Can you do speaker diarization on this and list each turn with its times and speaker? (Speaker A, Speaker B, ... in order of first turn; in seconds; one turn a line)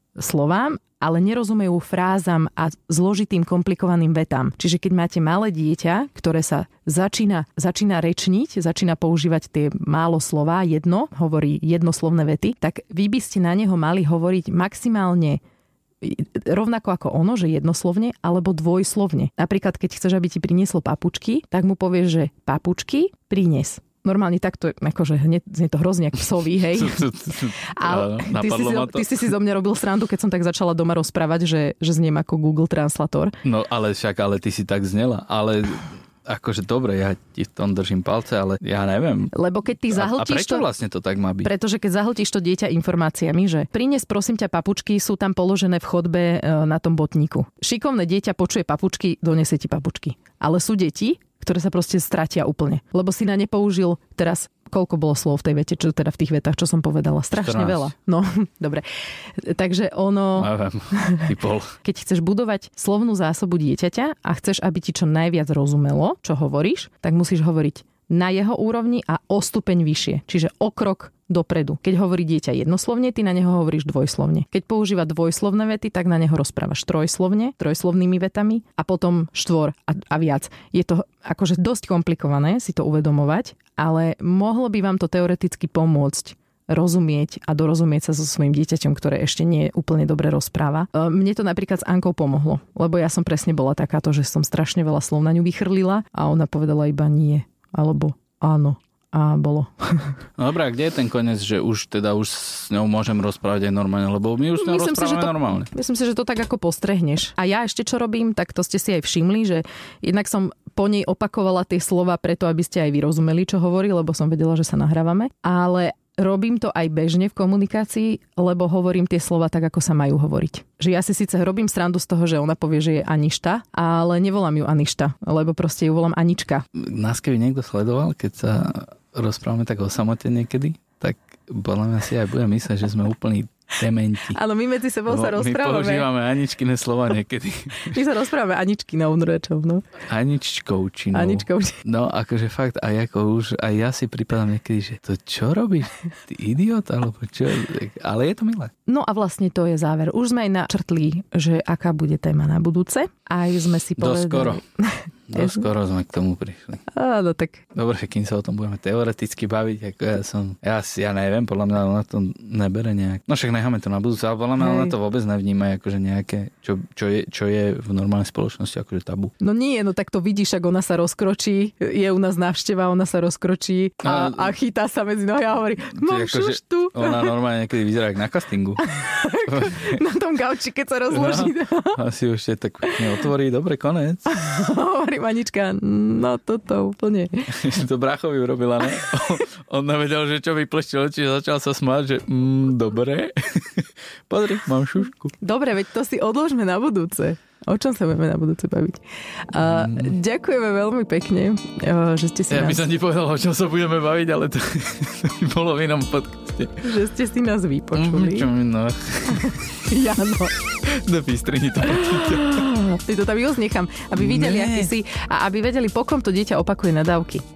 Speaker A: 0.2-15.4
Speaker A: 16.0-27.1
Speaker B: 26.7-29.3
Speaker A: 27.6-33.4
Speaker B: 33.4-39.3
Speaker A: 39.3-40.7
Speaker B: 39.9-41.5
Speaker A: 41.4-61.3
Speaker B: 57.4-57.9
Speaker B: 60.4-61.7
Speaker A: 61.8-100.2
Speaker B: 100.4-105.7
Speaker A: 104.6-126.7
Speaker B: 126.8-134.4
Speaker A: 134.3-136.1
Speaker B: 135.1-138.0
Speaker A: 137.9-139.9
Speaker B: 140.1-148.7
Speaker A: 141.1-141.8
Speaker A: 148.9-155.7
Speaker B: 154.0-154.6
Speaker B: 155.3-156.8
Speaker A: 156.9-157.6
Speaker B: 157.8-169.3
Speaker A: 164.6-164.9
Speaker A: 169.4-177.3
Speaker B: 174.0-174.6
Speaker B: 175.9-178.8
Speaker A: 178.9-182.0
Speaker B: 179.5-180.0
Speaker B: 181.1-184.3
Speaker A: 182.8-183.1
Speaker A: 184.3-187.5
Speaker B: 187.5-195.3
Speaker A: 195.4-202.8
Speaker B: 199.6-200.1
Speaker B: 202.5-206.8
Speaker A: 206.8-208.5
Speaker B: 207.9-209.7
Speaker A: 209.3-210.6
Speaker B: 210.8-212.6
Speaker A: 211.8-217.4
Speaker B: 214.2-214.9